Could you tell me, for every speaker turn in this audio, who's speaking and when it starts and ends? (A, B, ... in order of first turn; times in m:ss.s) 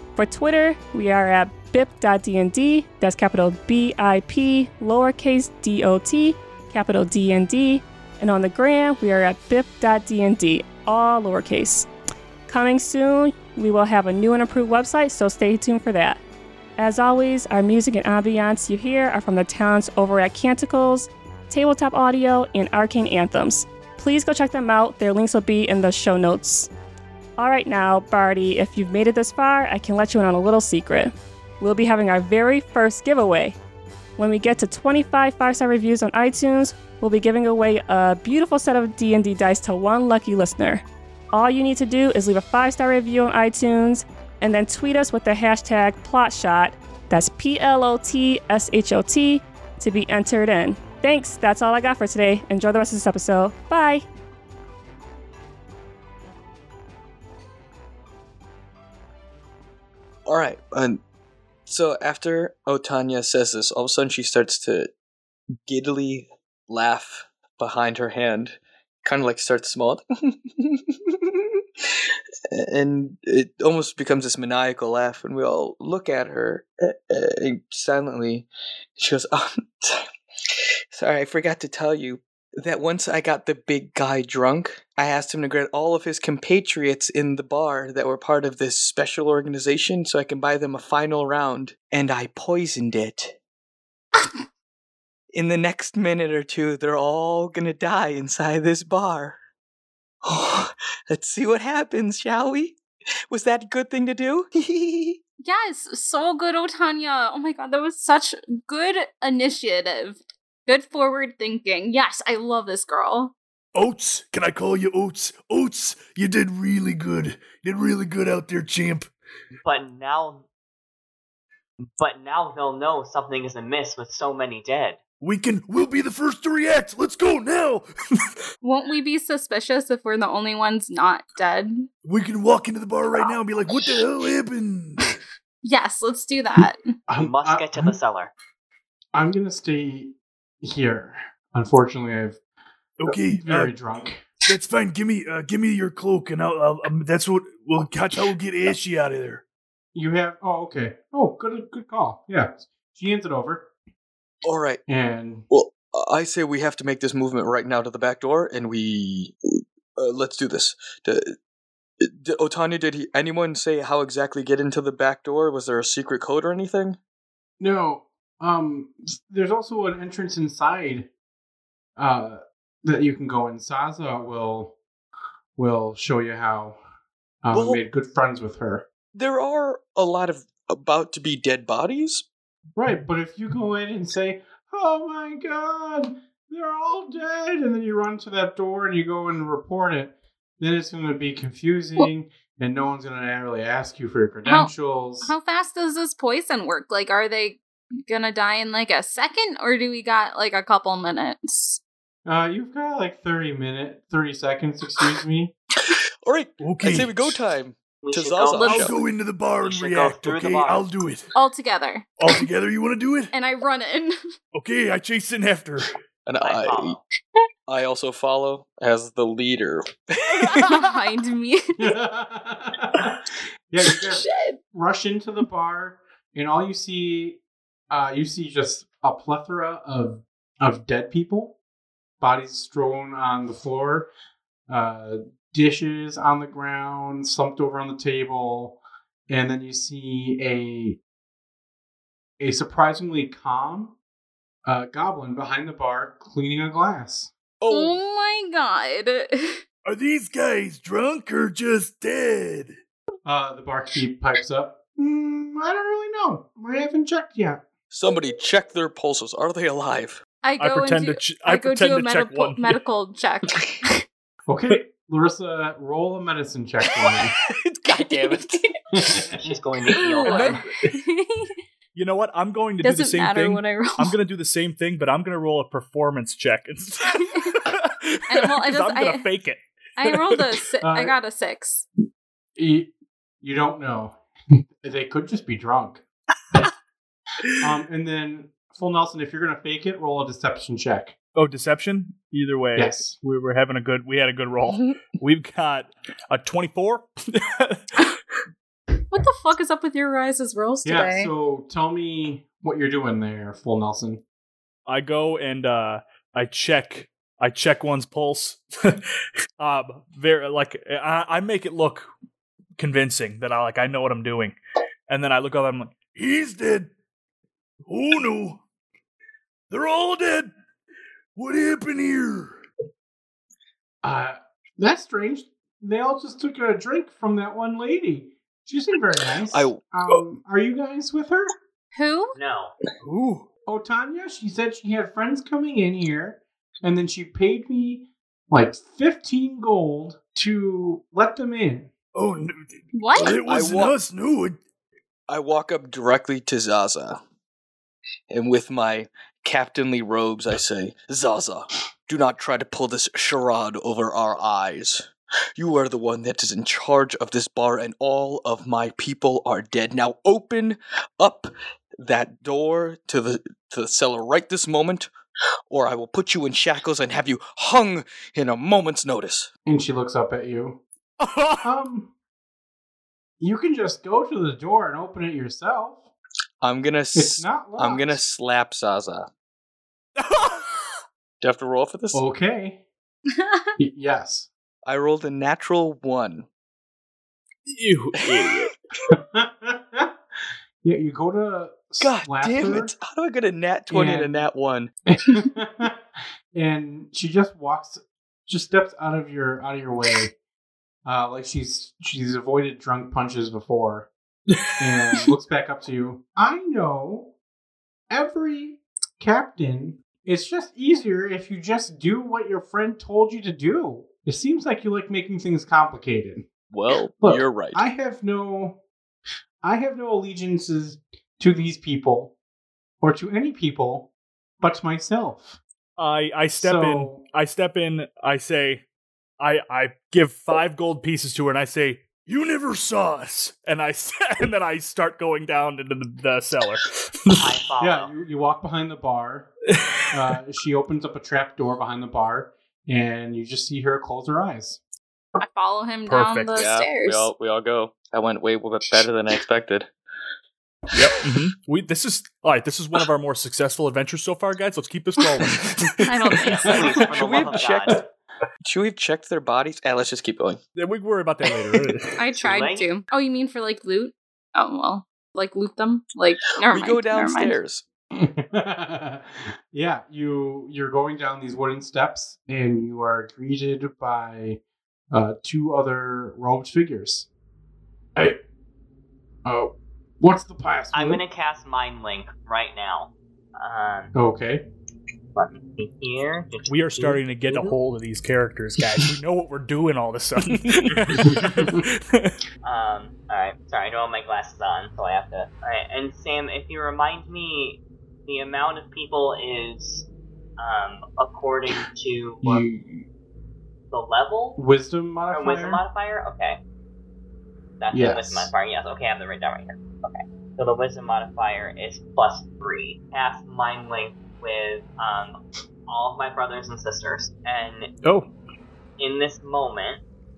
0:00.2-0:11.9 A
0:12.5-0:16.2 A
0:16.8-0:26.7 A
0:27.4-0:33.6 A
0:34.2-0:54.0 A
1:00.3-1:01.0 B
1:01.7-1:04.9 B
1:05.6-1:11.6 B
1:12.5-1:20.1 B
1:20.9-1:33.4 B
1:35.3-1:39.4 B
1:40.2-1:42.8 B
1:43.3-1:45.2 B
1:45.4-1:53.3 C
1:53.8-1:59.1 D
1:59.6-2:00.5 E
2:02.0-2:05.0 E
2:05.2-2:08.3 D
2:08.6-2:11.9 C
2:12.0-2:15.2 D
2:15.6-2:16.9 C
2:17.1-2:18.0 F
2:17.2-2:18.3 E
2:19.1-2:22.4 F
2:23.0-2:23.7 D
2:23.3-2:24.2 F
2:24.5-2:29.4 D
2:30.0-2:33.7 F
2:34.4-2:34.8 B
2:34.9-2:35.5 F
2:35.5-2:41.4 B
2:42.0-2:47.0 B
2:47.6-2:51.1 F
2:52.0-2:54.8 F
2:55.6-2:56.8 F
2:57.4-2:58.9 F
2:57.5-2:57.8 B
2:59.1-3:02.3 B
3:02.8-3:15.3 F
3:14.4-3:14.7 C
3:15.2-3:21.8 C
3:22.3-3:25.5 F
3:26.2-3:29.0 B
3:26.6-3:27.4 D
3:28.0-3:29.0 E
3:28.6-3:31.3 D
3:29.6-3:30.9 E
3:31.4-3:32.4 C
3:32.2-3:33.3 D
3:33.3-3:34.2 C
3:34.5-3:35.9 D
3:36.2-3:37.0 B
3:36.4-3:37.0 E
3:37.7-3:40.7 B
3:40.6-3:41.9 C
3:41.8-3:51.6 F
3:44.2-3:44.6 C
3:52.2-3:54.1 F
3:54.7-4:01.0 F
4:02.4-4:04.0 F
4:04.6-4:07.3 F
4:07.6-4:08.0 B
4:07.7-4:09.6 C
4:09.8-4:12.7 D
4:13.2-4:17.6 F
4:17.9-4:20.2 B
4:20.4-4:24.0 C
4:20.6-4:22.8 G
4:24.5-4:27.3 F
4:27.0-4:28.6 B
4:28.0-4:28.7 C
4:28.9-4:29.6 F
4:29.3-4:30.6 E
4:29.9-4:31.5 C
4:32.0-4:39.6 G
4:32.8-4:34.1 C
4:37.1-4:37.6 C
4:38.3-4:39.3 C
4:40.0-4:41.8 C
4:40.8-4:41.1 F
4:42.6-4:42.9 F
4:43.4-4:46.0 F
4:47.6-4:51.2 F
4:51.4-4:57.8 G
4:52.8-4:53.2 F
4:59.1-5:01.3 C
5:00.8-5:04.2 F
5:04.9-5:09.0 G
5:09.6-5:12.1 G
5:12.8-5:14.6 G
5:15.1-5:16.1 G
5:16.1-5:16.9 D
5:17.9-5:18.6 D
5:19.7-5:20.5 D
5:21.4-5:22.6 D
5:24.0-5:31.5 F
5:29.5-5:29.9 B
5:32.0-5:32.3 C
5:32.4-5:32.8 E
5:33.0-5:33.4 D
5:33.6-5:41.9 F
5:42.1-5:44.6 D
5:42.9-5:43.4 C
5:43.2-5:44.0 B
5:45.3-5:47.2 B
5:48.3-6:05.1 B
6:05.7-6:09.5 B
6:09.6-6:10.8 F
6:11.6-6:12.1 F
6:13.4-6:16.1 F
6:16.6-6:19.3 B
6:17.1-6:18.2 F
6:21.4-6:22.2 B
6:22.1-6:22.8 F
6:23.4-6:23.7 C
6:23.8-6:24.5 F
6:24.9-6:26.5 B
6:27.8-6:28.6 D
6:29.1-6:30.1 F
6:30.8-6:32.9 F
6:32.0-6:34.9 B
6:33.9-6:34.5 F
6:35.1-6:36.0 F
6:36.6-6:40.3 F
6:41.0-6:44.1 F
6:44.8-6:47.3 F
6:48.1-6:56.5 F
6:56.7-6:57.8 B
6:57.2-6:58.8 F
6:59.6-7:02.4 F
7:03.0-7:05.6 F
7:06.0-7:08.8 G
7:06.6-7:07.3 F
7:09.4-7:12.2 G
7:12.2-7:13.6 D
7:13.6-7:16.8 G
7:17.4-7:18.1 E
7:17.8-7:19.5 F
7:20.1-7:24.8 F
7:25.4-7:27.3 C
7:26.1-7:26.6 G
7:26.6-7:29.9 B
7:31.2-7:35.8 G
7:35.8-7:38.0 B
7:36.1-7:37.1 C
7:36.6-7:38.0 E
7:38.6-7:40.6 B
7:40.8-7:42.2 G
7:42.2-7:47.6 C
7:42.3-7:42.9 E
7:46.6-7:47.8 B
7:48.1-7:54.6 F
7:55.1-7:57.3 F
7:59.4-8:01.2 F
8:00.9-8:04.1 E
8:04.1-8:04.7 F
8:05.4-8:07.1 E
8:06.7-8:11.8 G
8:07.0-8:07.7 F
8:12.6-8:22.6 E
8:22.4-8:23.0 F
8:23.9-8:24.6 E
8:24.6-8:25.8 F
8:25.3-8:26.6 E
8:27.8-8:35.4 E
8:27.9-8:28.5 F
8:35.9-8:37.9 E
8:38.0-8:38.3 G
8:39.0-8:40.0 E